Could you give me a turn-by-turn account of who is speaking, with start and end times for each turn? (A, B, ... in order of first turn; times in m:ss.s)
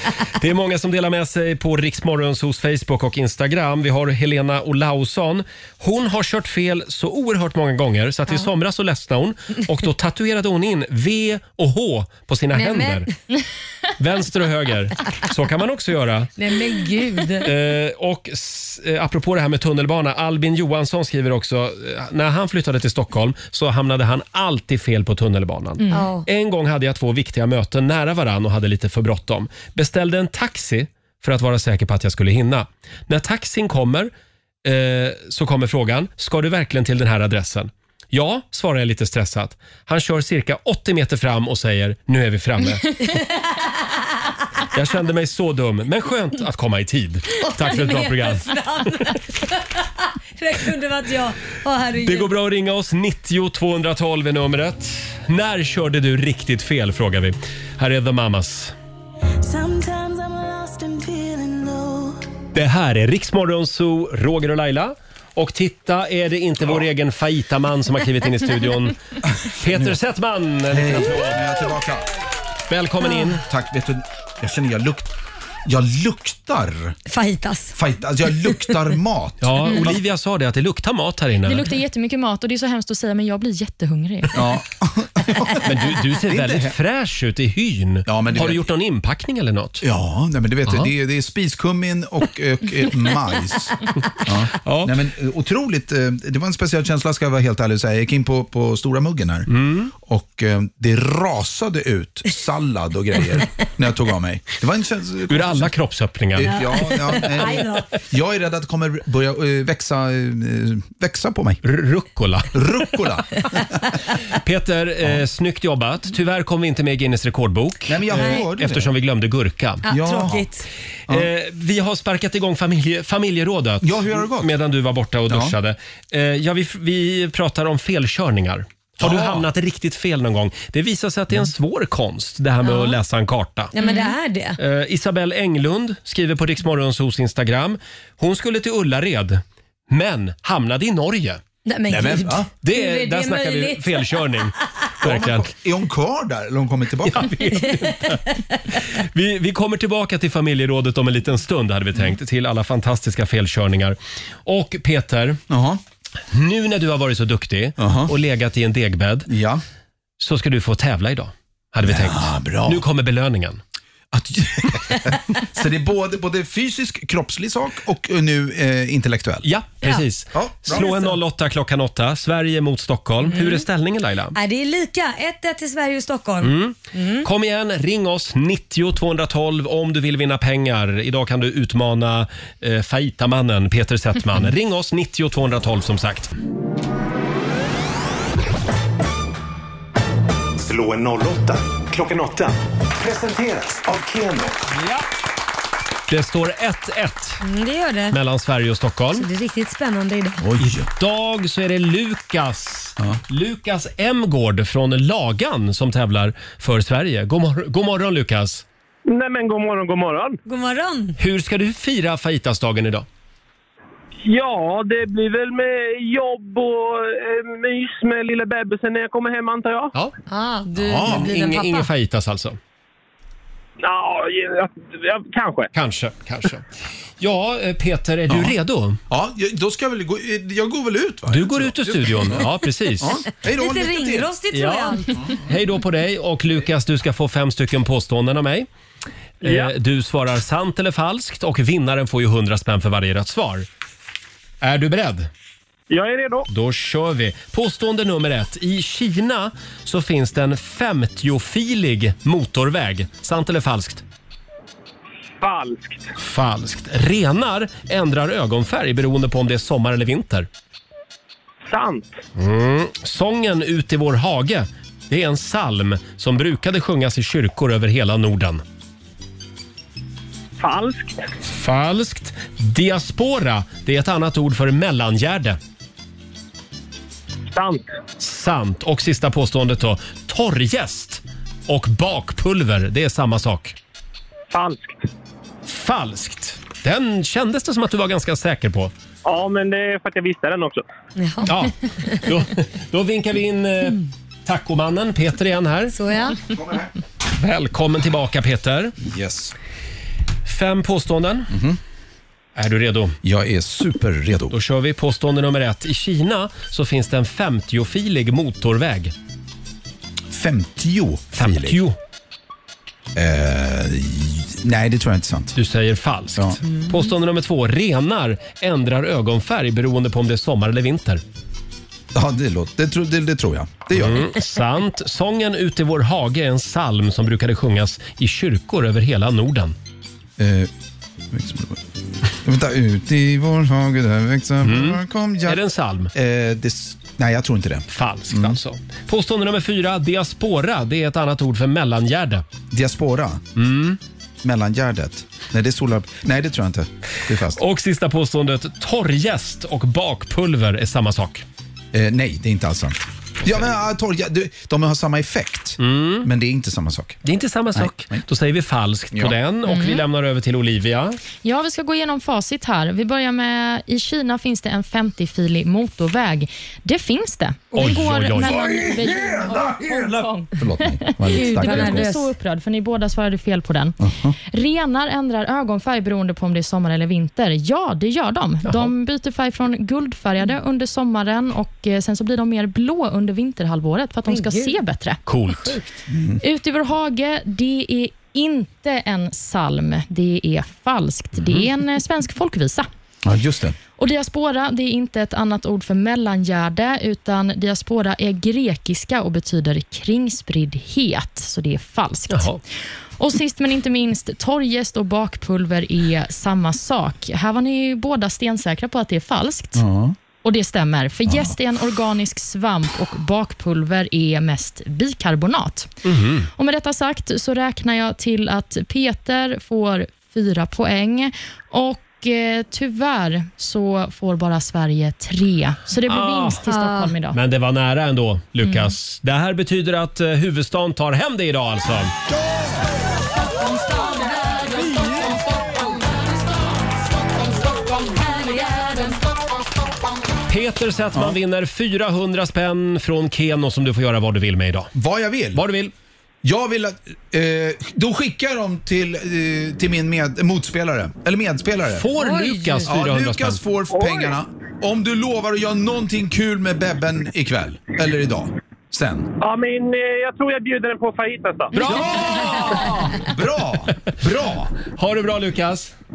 0:00.2-0:13.1 A
0:12.6-0:13.1 B
0:14.0-0:16.3 A
0:16.4-0:17.5 B
0:17.4-0:34.1 A
0:25.8-0:26.3 B
0:34.6-0:43.0 A
0:43.0-0:43.8 B
0:44.7-0:49.1 A
0:47.4-0:52.3 B
0:52.0-0:58.8 A
0:59.6-1:01.8 C
1:02.5-1:09.0 A
1:09.4-1:10.0 D
1:09.6-1:11.4 A
1:10.7-1:12.1 D
1:12.7-1:13.4 A
1:13.4-1:15.1 D
1:15.7-1:17.0 D
1:17.1-1:17.8 B
1:17.8-1:20.0 D
1:19.4-1:21.7 A
1:21.5-1:24.5 E
1:24.3-1:26.7 D
1:25.6-1:29.8 A
1:28.1-1:28.6 D
1:29.8-1:45.7 D
1:34.6-1:35.0 A
1:39.5-1:39.9 A
1:45.3-1:47.4 A
1:46.4-1:51.6 D
1:46.5-1:47.9 B
1:51.6-1:52.8 A
1:52.6-1:53.9 D
1:54.3-1:59.8 A
1:57.9-1:58.9 D
1:59.8-2:00.7 B
1:59.9-2:00.5 D
2:01.1-2:13.8 A
2:03.8-2:04.5 D
2:09.0-2:09.5 D
2:12.6-2:13.0 B
2:13.8-2:14.6 B
2:14.6-2:21.4 A
2:21.6-2:24.2 B
2:21.9-2:22.5 D
2:22.6-2:25.5 A
2:25.0-2:27.4 D
2:27.1-2:35.4 A
2:27.6-2:28.4 B
2:35.5-2:35.8 D
2:36.3-2:39.3 A
2:37.8-2:38.1 D
2:39.3-2:39.6 D
2:40.2-2:43.6 A
2:41.8-2:42.8 D
2:44.1-2:49.4 D
2:49.4-2:54.4 A
2:50.3-2:51.1 D
2:53.3-2:53.6 B
2:54.3-2:57.3 B
2:56.4-3:06.3 A
3:10.6-3:14.5 F
3:14.7-3:15.0 A
3:16.1-3:17.4 A
3:17.4-3:18.2 B
3:18.1-3:19.3 A
3:19.1-3:20.5 B
3:20.4-3:20.9 D
3:20.8-3:28.6 A
3:29.1-3:30.4 G
3:30.5-3:31.2 B
3:31.2-3:33.1 A
3:34.2-3:39.9 G
3:40.3-3:41.9 B
3:40.8-3:41.2 D
3:41.1-3:42.6 A
3:43.8-3:45.7 G
3:45.7-3:46.7 A
3:47.2-3:49.0 A
3:48.3-3:48.5 D
3:49.1-3:54.3 D
3:51.3-3:53.2 A
3:53.5-3:55.2 B
3:54.5-3:58.7 A
3:59.4-4:03.7 A
3:59.4-3:59.7 G
4:04.6-4:05.3 A
4:05.9-4:06.5 G
4:06.5-4:14.0 A
4:15.4-4:16.1 G
4:16.2-4:20.5 A
4:21.7-4:22.2 G
4:22.4-4:28.6 A
4:30.6-4:31.2 G
4:31.5-4:35.6 A
4:37.5-4:37.9 G
4:38.2-4:43.8 A
4:44.5-4:45.0 G
4:45.7-4:48.9 A
4:49.2-4:50.8 G
4:51.2-4:51.5 B
4:51.5-4:56.0 A
4:55.9-4:56.4 B
4:56.4-4:56.9 D
4:57.4-4:59.0 A
4:59.0-4:59.5 D
5:00.4-5:01.5 A
5:01.5-5:01.8 D
5:02.6-5:03.2 A
5:03.2-5:04.6 D
5:04.5-5:09.1 A
5:10.3-5:11.8 D
5:11.4-5:12.0 A
5:13.2-5:15.6 D
5:15.6-5:21.2 A
5:22.1-5:24.3 D
5:23.9-5:29.8 A
5:30.4-5:30.7 D
5:31.3-5:31.8 D
5:32.4-5:35.6 D
5:34.6-5:36.1 A
5:36.1-5:38.6 D
5:37.9-5:42.5 A
5:42.7-5:43.4 D
5:43.6-5:44.0 A
5:44.4-5:47.6 D
5:47.5-5:51.4 A
5:51.9-5:57.2 D
5:55.8-5:56.3 A
5:57.2-6:01.2 A
5:57.8-5:58.2 D
5:59.7-6:00.0 E
6:01.4-6:25.2 E
6:07.8-6:08.6 A
6:07.9-6:12.1 D
6:11.3-6:12.3 B
6:14.0-6:14.4 D
6:24.3-6:24.8 B
6:25.3-6:25.8 A
6:26.1-6:26.4 D
6:26.4-6:32.9 E
6:33.2-6:33.8 D
6:34.0-6:42.6 E
6:42.3-6:42.6 A
6:43.2-6:49.8 E
6:49.8-6:50.2 D
6:50.4-6:55.9 E
6:56.0-6:56.5 A
6:56.6-7:07.4 E
7:06.1-7:06.6 A
7:06.7-7:07.1 B
7:07.3-7:12.1 A
7:08.6-7:08.9 E
7:20.5-7:24.9 A
7:25.0-7:25.6 D
7:25.5-7:25.9 A
7:26.4-7:32.1 D
7:31.9-7:33.6 A
7:32.2-7:32.9 B
7:32.8-7:39.3 D
7:34.0-7:34.3 G
7:39.4-7:41.8 G
7:41.8-7:43.3 A
7:41.8-7:44.7 D
7:44.9-7:45.9 A